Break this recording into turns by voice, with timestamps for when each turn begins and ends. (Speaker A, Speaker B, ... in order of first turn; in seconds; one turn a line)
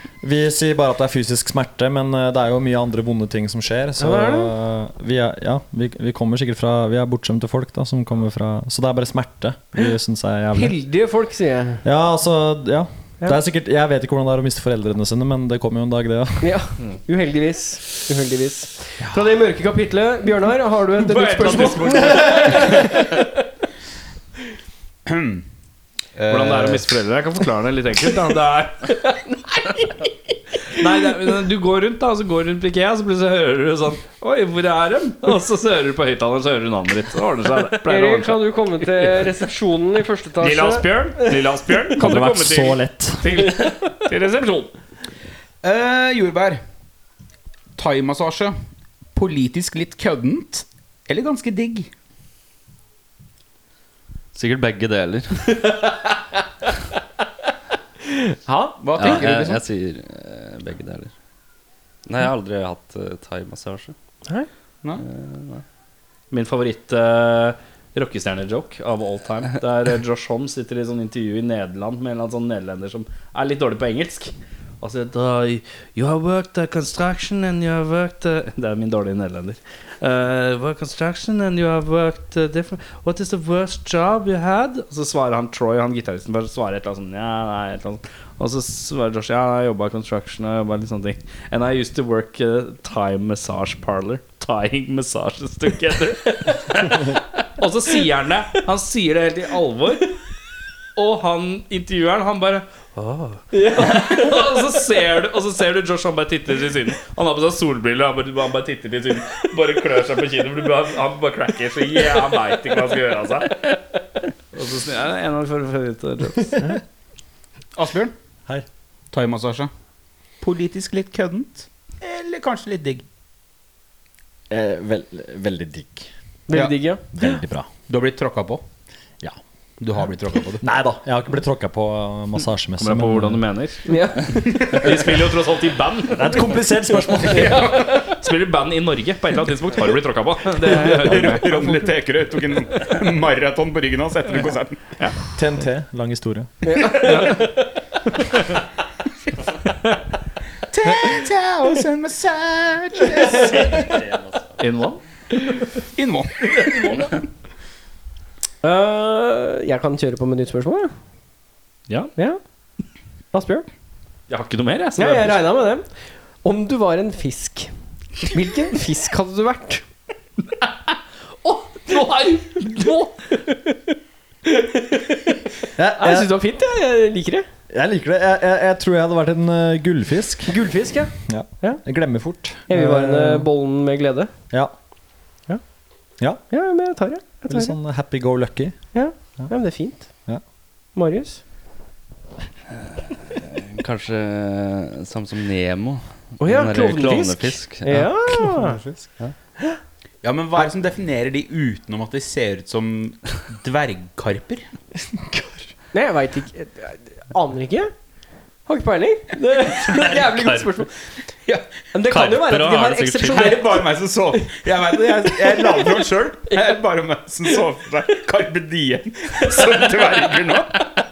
Speaker A: 0.2-10.7
Speaker B: 4.0-4.5
Speaker B: 10.5-11.8
Speaker A: 11.8-16.5
Speaker B: 16.4-23.2
Speaker C: 21.0-22.8
Speaker D: 21.4-22.8
Speaker D: 25.0-25.4
Speaker D: 26.1-26.9
Speaker C: 26.3-28.9
Speaker C: 30.7-39.3
Speaker B: 37.8-41.9
Speaker C: 40.4-44.7
Speaker A: 42.0-43.5
Speaker D: 45.6-46.6
Speaker D: 47.8-48.5
Speaker D: 49.1-51.9
Speaker E: 54.3-55.7
Speaker B: 58.1-59.2
Speaker D: 58.8-59.6
Speaker E: 59.0-61.1
Speaker E: 62.0-63.9
Speaker E: 65.0-65.6
Speaker C: 66.3-100.1
Speaker C: 101.0-113.8
Speaker B: 103.5-104.4
Speaker C: 114.5-116.6
Speaker D: 117.8-118.1
Speaker D: 119.1-119.7
Speaker D: 120.4-123.0
Speaker A: 124.5-126.1
Speaker B: 126.5-127.0
Speaker A: 127.1-127.7
Speaker D: 127.9-128.6
Speaker D: 129.8-130.6
Speaker A: 130.6-133.4
Speaker C: 132.8-136.6
Speaker B: 133.9-134.9
Speaker D: 134.6-135.0
Speaker A: 136.1-137.7
Speaker D: 137.1-138.1
Speaker B: 137.3-137.9
Speaker C: 137.6-141.6
Speaker D: 140.6-144.8
Speaker B: 140.6-141.6
Speaker A: 145.3-147.1
Speaker B: 146.6-147.7
Speaker C: 146.9-147.6
Speaker D: 150.7-153.9
Speaker E: 153.4-154.6
Speaker C: 154.6-155.0
Speaker D: 155.9-157.1
Speaker B: 158.6-160.9
Speaker B: 163.3-163.7
Speaker C: 164.3-165.4
Speaker B: 165.0-165.8
Speaker B: 166.4-167.7
Speaker B: 168.2-169.8
Speaker C: 171.4-173.3
Speaker B: 173.5-173.8
Speaker B: 174.4-177.5
Speaker A: 175.8-176.3
Speaker A: 177.7-180.6
Speaker B: 180.5-181.8
Speaker A: 181.3-183.5
Speaker B: 182.7-184.3
Speaker B: 186.5-187.8
Speaker A: 187.5-188.8
Speaker B: 188.9-190.1
Speaker B: 190.9-191.4
Speaker E: 193.3-198.1
Speaker B: 196.4-198.8
Speaker A: 197.9-199.1
Speaker D: 200.2-204.7
Speaker A: 205.2-205.7
Speaker B: 205.9-207.9
Speaker B: 208.7-210.9
Speaker E: 209.9-210.7
Speaker B: 211.9-213.8
Speaker E: 212.0-213.5
Speaker D: 213.3-220.7
Speaker B: 215.3-216.7